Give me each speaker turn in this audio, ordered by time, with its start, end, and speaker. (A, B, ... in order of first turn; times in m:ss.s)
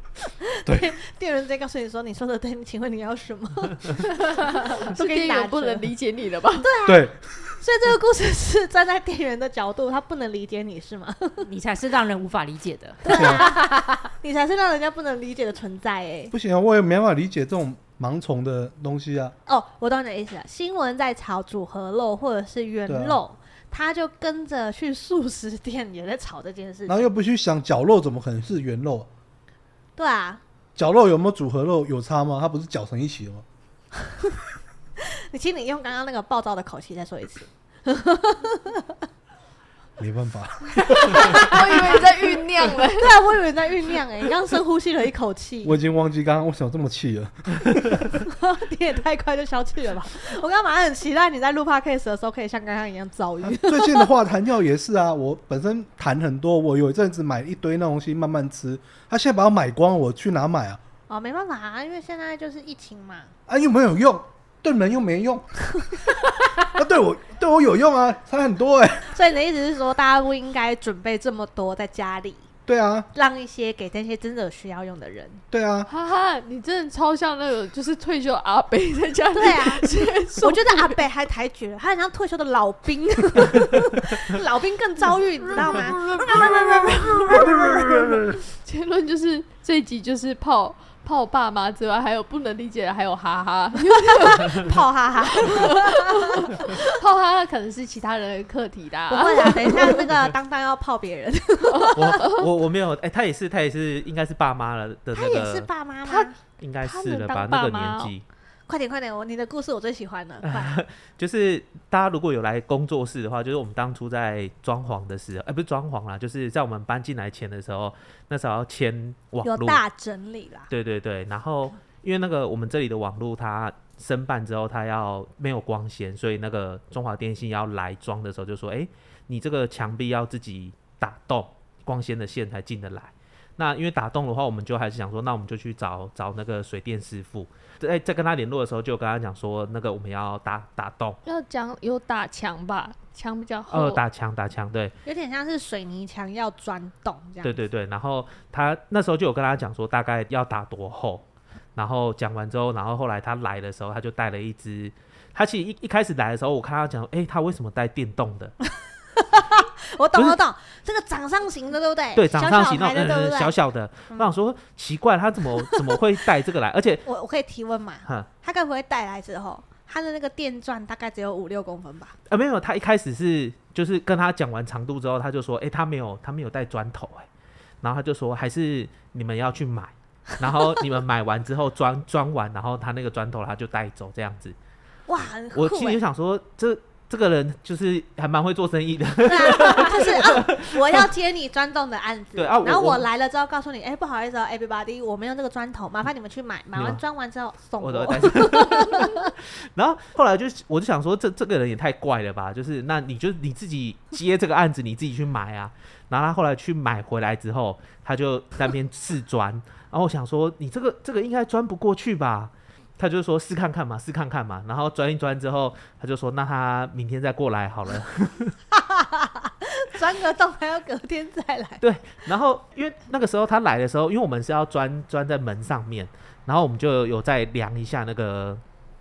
0:00.6-0:05.8 A
0:04.9-0:06.7 B
0:06.6-0:11.4 A
0:06.8-0:07.1 C
0:11.4-0:13.4 D
0:13.0-0:16.3 A
0:13.1-0:13.5 C
0:16.3-0:19.3 C
0:19.4-0:27.1 A
0:22.9-0:23.2 C
0:26.9-0:29.1 C
0:30.0-0:30.4 A
0:30.8-0:33.4 C
0:35.0-0:39.0 A
0:40.0-0:41.4 C
0:41.0-0:43.1 B
0:41.0-0:45.7 A
0:45.6-0:48.0 C
0:48.2-0:54.1 A
0:53.4-1:00.8 C
1:01.1-1:03.3 A
1:03.5-1:05.6 C
1:06.6-1:09.1 C
1:09.1-1:12.5 A
1:12.7-1:13.1 C
1:13.1-1:15.4 A
1:15.5-1:15.9 C
1:15.9-1:21.0 B
1:19.4-1:28.3 A
1:27.4-1:27.7 C
1:28.6-1:34.6 B
1:34.2-1:36.6 A
1:35.4-1:40.0 B
1:39.1-1:42.2 A
1:41.8-1:42.4 B
1:41.9-1:45.7 E
1:45.1-1:46.4 A
1:46.0-1:48.1 B
1:46.6-1:48.2 E
1:48.7-1:50.7 A
1:50.4-1:59.8 E
1:59.4-2:00.7 A
2:00.7-2:21.2 E
2:21.2-2:24.0 B
2:23.7-2:24.9 E
2:25.0-2:27.6 A
2:27.4-2:31.2 E
2:31.8-2:38.5 E
2:39.2-2:43.5 A
2:42.1-2:47.0 E
2:47.0-2:52.2 A
2:48.0-2:48.3 E
2:52.3-2:57.3 E
2:57.8-3:04.6 E
3:05.1-3:06.0 A
3:05.5-3:11.0 E
3:09.2-3:19.3 A
3:12.4-3:13.1 E
3:16.7-3:17.0 E
3:17.8-3:19.1 E
3:19.7-3:38.6 E
3:38.7-3:41.8 A
3:41.8-3:48.6 E